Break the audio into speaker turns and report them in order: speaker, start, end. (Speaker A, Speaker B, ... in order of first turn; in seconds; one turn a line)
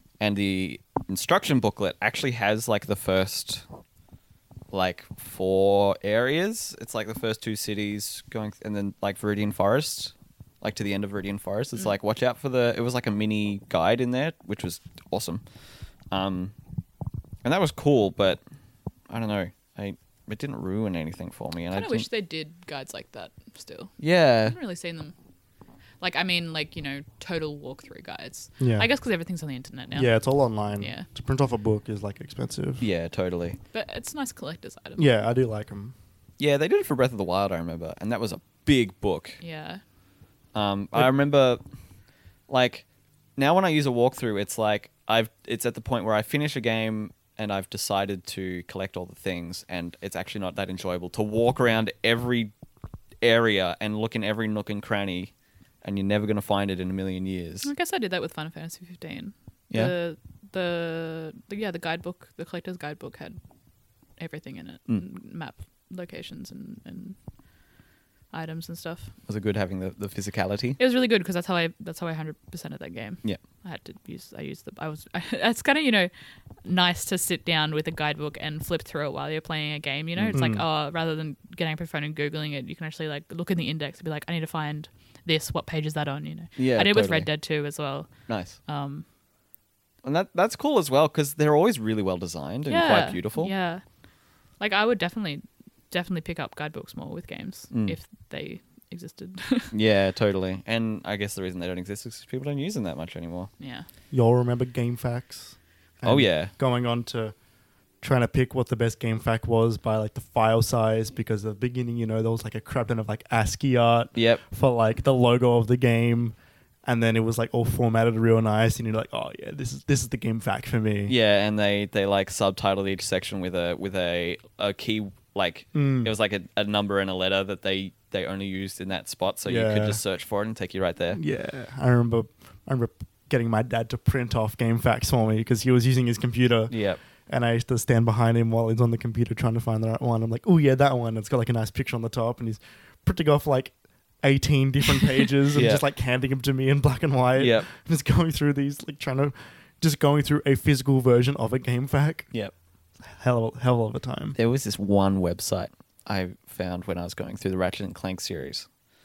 Speaker A: 0.2-3.6
Speaker A: 4.7-15.4
Speaker A: 16.1-16.5
Speaker A: 17.4-18.4
Speaker A: 19.1-22.1
Speaker B: 21.7-25.1
Speaker A: 24.0-24.6
Speaker B: 26.0-30.2
Speaker C: 28.6-28.9
Speaker C: 29.9-32.8
Speaker B: 30.8-31.1
Speaker A: 32.8-33.6
Speaker B: 33.7-35.0
Speaker C: 35.0-35.9
Speaker A: 36.4-39.4
Speaker B: 39.4-39.8
Speaker A: 40.5-41.6
Speaker A: 42.5-52.5
Speaker A: 53.2-57.7
Speaker B: 57.6-63.4
Speaker B: 64.2-67.2
Speaker B: 68.3-69.1
Speaker A: 69.3-70.8
Speaker B: 70.8-76.1
Speaker B: 76.6-89.0
Speaker C: 80.3-80.6
Speaker A: 86.6-87.3
Speaker A: 88.3-88.6
Speaker A: 90.0-93.5
Speaker B: 92.7-93.8
Speaker B: 94.6-99.7
Speaker A: 97.7-98.0
Speaker A: 99.7-103.5
Speaker B: 103.6-103.9
Speaker C: 104.1-107.3
Speaker A: 106.0-106.5
Speaker C: 108.0-121.1
Speaker A: 114.1-114.4
Speaker A: 121.1-131.2
Speaker C: 125.7-126.1
Speaker C: 129.4-130.0
Speaker C: 131.1-136.7
Speaker A: 136.7-137.0
Speaker C: 137.3-152.3
Speaker A: 145.5-145.8
Speaker A: 147.3-147.7
Speaker C: 153.1-154.3
Speaker A: 154.3-158.7